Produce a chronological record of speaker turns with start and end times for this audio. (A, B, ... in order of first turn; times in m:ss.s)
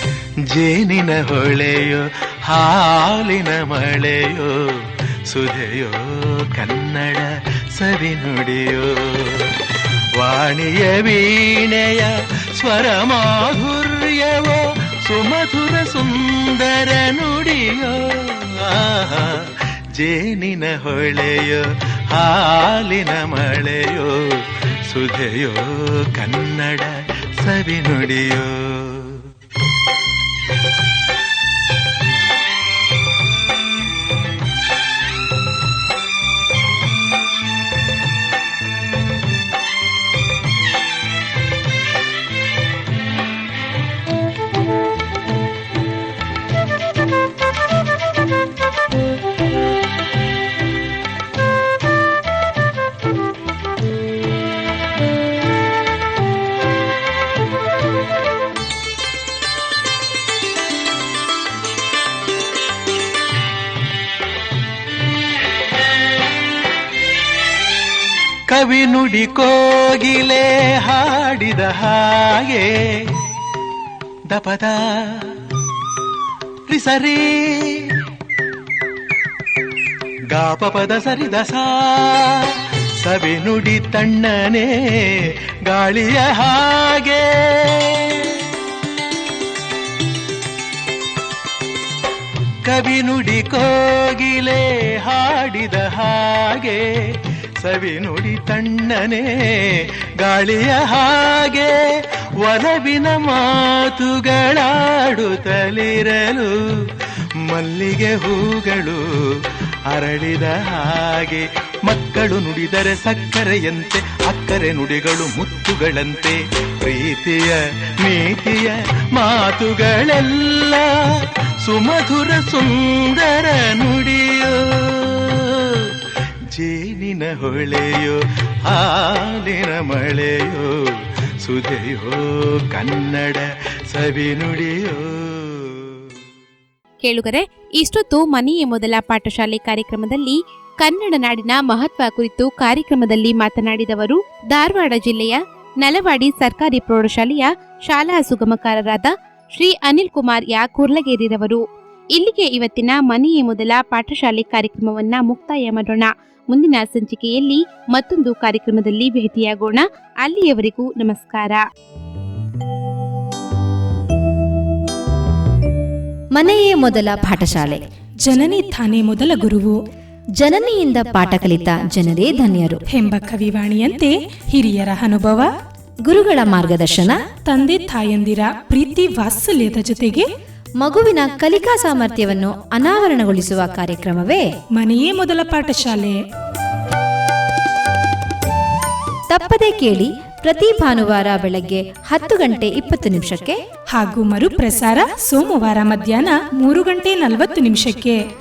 0:00.5-0:09.6 A
0:10.2-0:29.3 A
1:08.5-1:13.2 A
1:14.3-1:15.5 A
1:16.7-1:18.0 A
1:20.3-1:28.4 A
1:32.6-1:41.7 A
1:42.4-1:46.9 A
1:47.5-1:49.0 A
1:49.9-2:06.0 A
2:06.5-2:10.8 A
2:11.4-2:16.1 A
2:17.0-2:31.6 B
2:32.1-2:41.6 B
2:46.3-2:47.8 C
2:48.2-2:49.8 D
2:50.4-2:52.8 C
2:52.9-2:55.5 D
2:56.0-2:57.2 C
2:57.4-3:00.3 D
3:00.8-3:04.5 C
3:04.8-3:06.2 D
3:09.3-3:13.6 C
3:13.9-3:18.2 D